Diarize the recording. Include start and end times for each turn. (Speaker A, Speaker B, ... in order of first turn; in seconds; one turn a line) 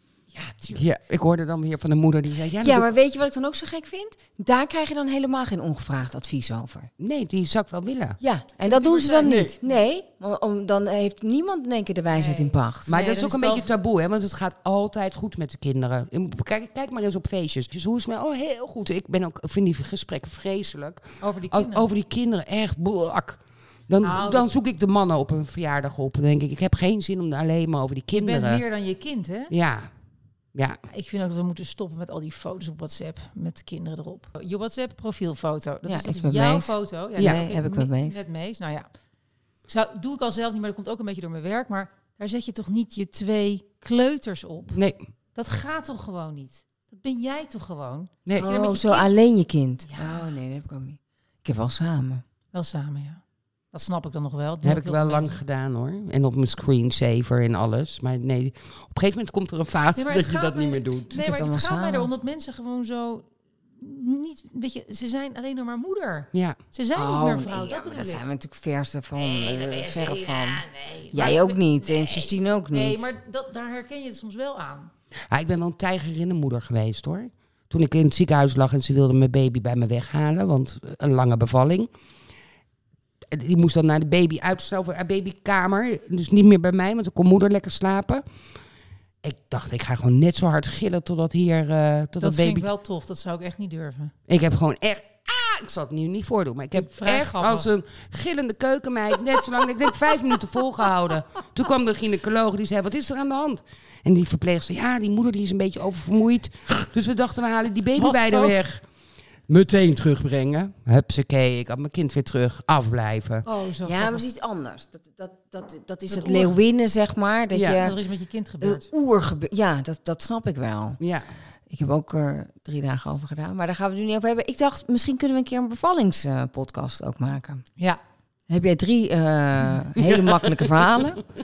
Speaker A: 0.3-0.8
Speaker B: 0.7-2.9
Speaker C: 2.6-6.9
Speaker B: 7.0-8.2
Speaker C: 8.2-12.9
Speaker A: 8.6-9.3
Speaker B: 9.1-9.5
Speaker A: 12.1-13.7
Speaker B: 12.9-28.6
Speaker A: 21.2-21.9
Speaker A: 24.0-24.5
Speaker A: 28.1-29.5
Speaker B: 29.5-29.9
Speaker A: 30.9-38.9
Speaker C: 35.8-38.2
Speaker A: 39.7-44.8
Speaker B: 44.7-45.0
Speaker A: 45.3-49.1
Speaker C: 48.4-52.2
Speaker A: 49.9-50.3
Speaker A: 52.5-55.4
Speaker B: 54.6-61.1
Speaker A: 59.9-68.2
Speaker C: 61.1-62.1
Speaker C: 66.9-73.1
Speaker A: 69.1-74.9
Speaker B: 75.3-81.9
Speaker B: 83.3-88.2
Speaker B: 89.2-92.7
Speaker A: 92.2-94.1
Speaker B: 94.3-108.8
Speaker A: 96.7-97.7
Speaker A: 108.0-108.5
Speaker B: 109.5-113.5
Speaker A: 113.4-114.2
Speaker C: 113.8-118.0
Speaker A: 116.1-116.5
Speaker B: 117.5-117.8
Speaker A: 117.7-118.9
Speaker C: 118.6-121.0
Speaker B: 121.0-121.2
Speaker C: 121.7-127.6
Speaker C: 128.5-131.2
Speaker B: 130.0-131.0